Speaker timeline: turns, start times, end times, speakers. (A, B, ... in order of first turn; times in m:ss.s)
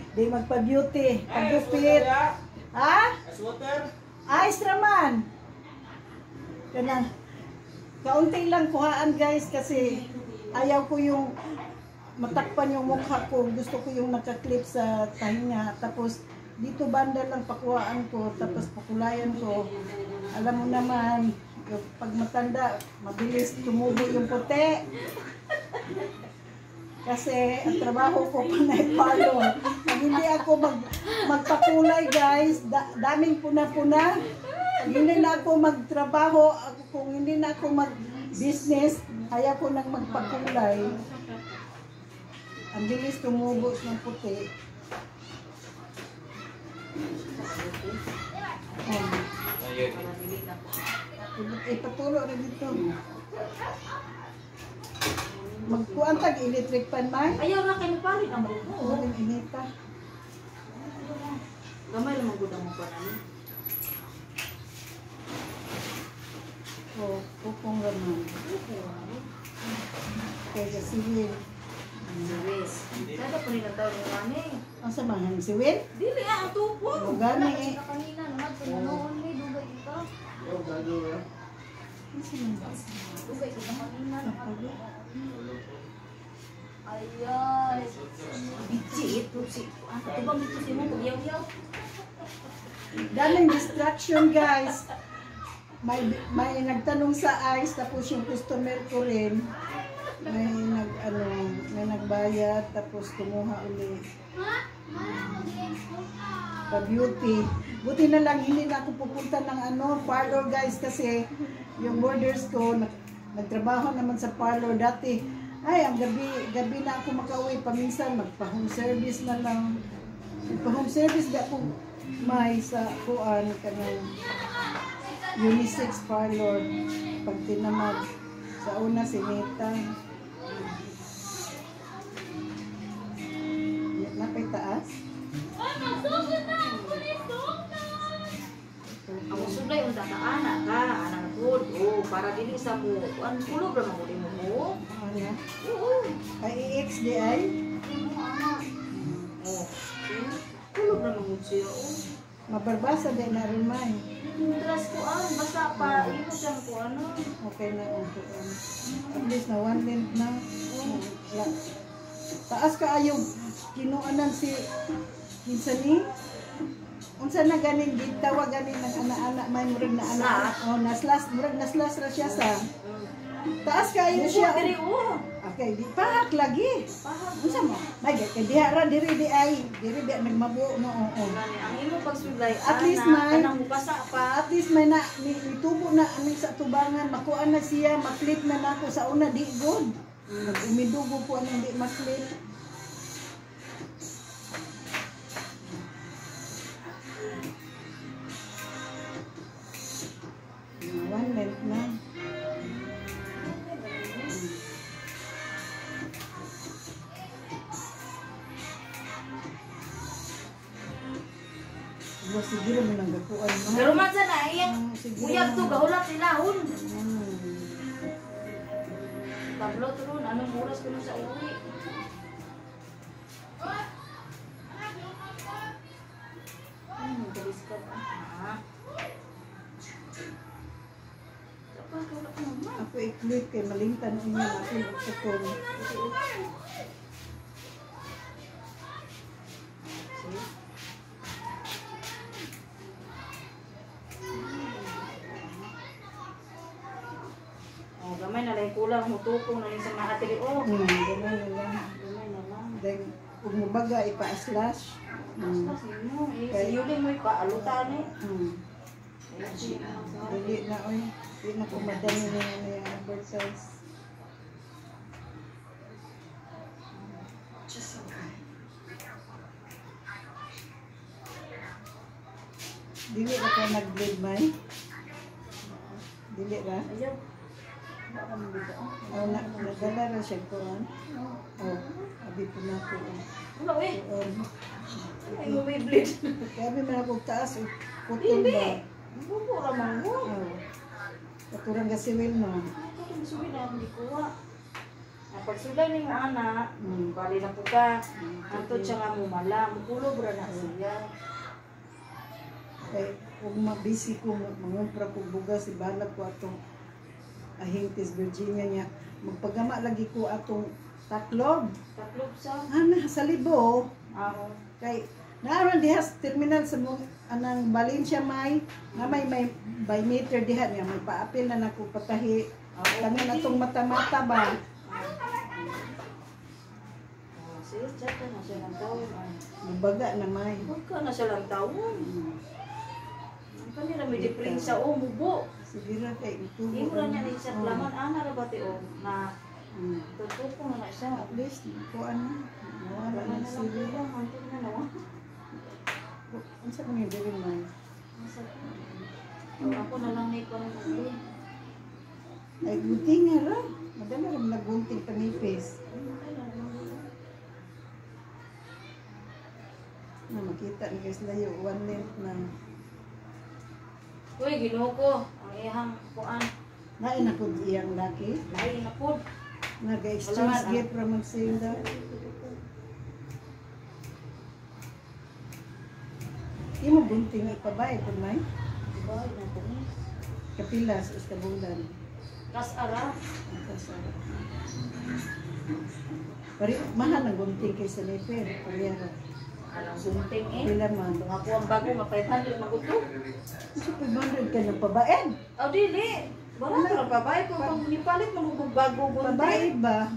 0:00.1-0:02.2 A
0:01.3-0:02.2 B
0:02.7-0:03.2 A
0:03.3-0:03.9 B
0:04.3-0:05.2 A
0:06.7-0:07.1 A
0:08.0-0:11.3 A
0:12.2-0:19.7 A
0:20.3-0:24.8 A
0:27.0-0:34.2 A
0:34.8-0:41.0 A
0:40.1-0:41.1 C
0:42.7-0:44.5 A
0:47.2-0:48.0 C
0:48.8-0:49.2 A
0:49.7-0:50.9 C
0:51.2-0:52.9 A
0:55.2-0:56.3 C
0:55.7-0:57.4 A
0:57.4-0:59.1 C
0:58.7-0:59.7 A
1:00.7-1:03.2 C
1:07.0-1:08.3 A
1:08.4-1:09.2 C
1:10.5-1:11.4 A
1:12.0-1:12.4 A
1:12.2-1:14.6 C
1:14.8-1:15.8 A
1:15.9-1:17.3 C
1:17.0-1:17.8 A
1:17.5-1:20.0 D
1:18.2-1:18.5 C
1:18.6-1:19.0 A
1:19.4-1:20.0 C
1:20.4-1:21.2 B
1:22.1-1:23.4 A
1:23.2-1:25.0 C
1:23.5-1:23.8 D
1:24.2-1:24.8 A
1:26.9-1:28.0 D
1:26.9-1:27.7 C
1:28.1-1:28.5 B
1:28.5-1:28.9 D
1:28.5-1:31.4 C
1:32.9-1:34.9 A
1:35.8-1:39.4 A
1:40.2-1:44.0 A
1:46.7-1:51.2 A
1:51.8-1:59.7 A
2:00.5-2:04.1 A
2:05.4-2:06.7 A
2:07.2-2:08.0 A
2:08.6-2:09.8 A
2:10.5-2:10.7 C
2:13.9-2:14.9 A
2:15.8-2:17.1 C
2:18.9-2:19.7 A
2:19.3-2:24.7 C
2:24.9-2:25.4 A
2:25.6-2:26.1 C
2:26.4-2:27.5 A
2:27.8-2:28.6 C
2:28.9-2:29.3 A
2:29.4-2:32.0 C
2:32.5-2:34.0 A
2:34.2-2:37.3 C
2:35.8-2:36.2 A
2:37.4-2:41.5 A
2:38.8-2:39.3 C
2:40.7-2:41.0 C
2:42.5-2:44.6 A
2:45.4-2:46.1 A
2:47.2-2:52.6 A
2:50.0-2:50.6 C
2:52.8-2:53.1 C
2:53.6-2:54.7 A
2:54.1-2:55.2 C
2:55.4-2:56.8 A
2:57.0-2:57.9 C
2:57.4-3:01.4 A
3:01.2-3:04.4 C
3:02.5-3:03.5 A
3:04.2-3:12.3 A
3:10.3-3:10.6 C
3:20.8-3:22.0 A
3:22.6-3:24.4 C
3:24.3-3:24.6 A
3:32.2-3:34.0 A
3:33.6-3:36.7 C
3:34.6-3:35.8 A
3:36.7-3:37.7 A
3:39.5-3:41.6 C
3:47.0-3:48.6 C
3:51.7-3:52.8 C
3:52.8-3:55.6 A
3:55.7-3:56.4 C
3:59.9-4:00.4 C
4:04.3-4:05.7 C
4:08.0-4:10.7 C
4:10.6-4:11.8 A
4:11.7-4:12.8 C
4:12.8-4:15.7 A
4:15.3-4:18.1 C
4:16.5-4:16.8 A
4:17.4-4:18.6 A
4:19.3-4:20.6 C
4:20.2-4:23.7 A
4:27.0-4:27.2 C
4:33.1-4:34.5 A
4:35.6-4:36.0 C
4:36.3-4:36.9 A
4:36.9-4:37.2 C
4:38.1-4:39.9 C
4:39.1-4:41.0 A
4:41.1-4:41.7 C
4:41.6-4:43.2 A
4:43.6-4:44.0 C
4:43.9-4:44.5 A
4:45.0-4:46.5 C
4:45.0-4:45.6 A
4:46.6-4:48.8 A
4:48.2-4:50.3 C
4:50.2-4:50.6 A
4:51.5-4:52.7 A
4:52.7-4:54.3 C
4:55.3-4:56.6 C
4:56.8-4:57.1 A
4:57.1-4:57.9 C
4:58.2-4:59.0 A
4:58.5-5:01.1 C
5:00.4-5:00.7 A
5:02.9-5:06.6 A
5:07.6-5:11.7 A
5:12.0-5:12.7 C
5:12.7-5:13.9 A
5:14.1-5:14.6 C
5:14.8-5:22.4 A
5:19.0-5:19.2 C
5:22.8-5:23.6 C
5:23.0-5:24.6 A
5:24.9-5:25.2 C
5:27.3-5:29.4 C
5:29.6-5:30.7 A
5:30.6-5:32.1 C
5:32.0-5:32.4 A
5:33.6-5:35.4 C
5:34.1-5:34.8 A
5:35.6-5:37.9 A
5:36.7-5:39.2 C
5:39.7-5:40.1 A
5:40.2-5:41.4 C
5:41.2-5:44.0 A
5:43.0-5:44.9 C
5:46.3-5:47.7 A
5:48.2-5:49.0 C
5:49.6-5:50.1 A
5:49.6-5:51.2 C
5:52.6-5:55.8 A
5:55.9-5:57.0 C
6:00.3-6:02.5 A
6:04.4-6:06.5 C
6:07.0-6:08.4 A
6:08.5-6:09.2 C
6:09.8-6:11.8 A
6:10.2-6:10.8 C
6:11.8-6:12.5 C
6:16.8-6:18.4 A
6:18.9-6:19.8 C
6:20.6-6:21.9 A
6:22.5-6:23.1 C
6:23.5-6:24.4 A
6:26.6-6:29.2 A
6:29.7-6:33.0 C
6:30.6-6:31.2 A
6:33.7-6:35.3 A
6:35.6-6:39.7 C
6:36.7-6:37.8 A
6:39.2-6:40.0 A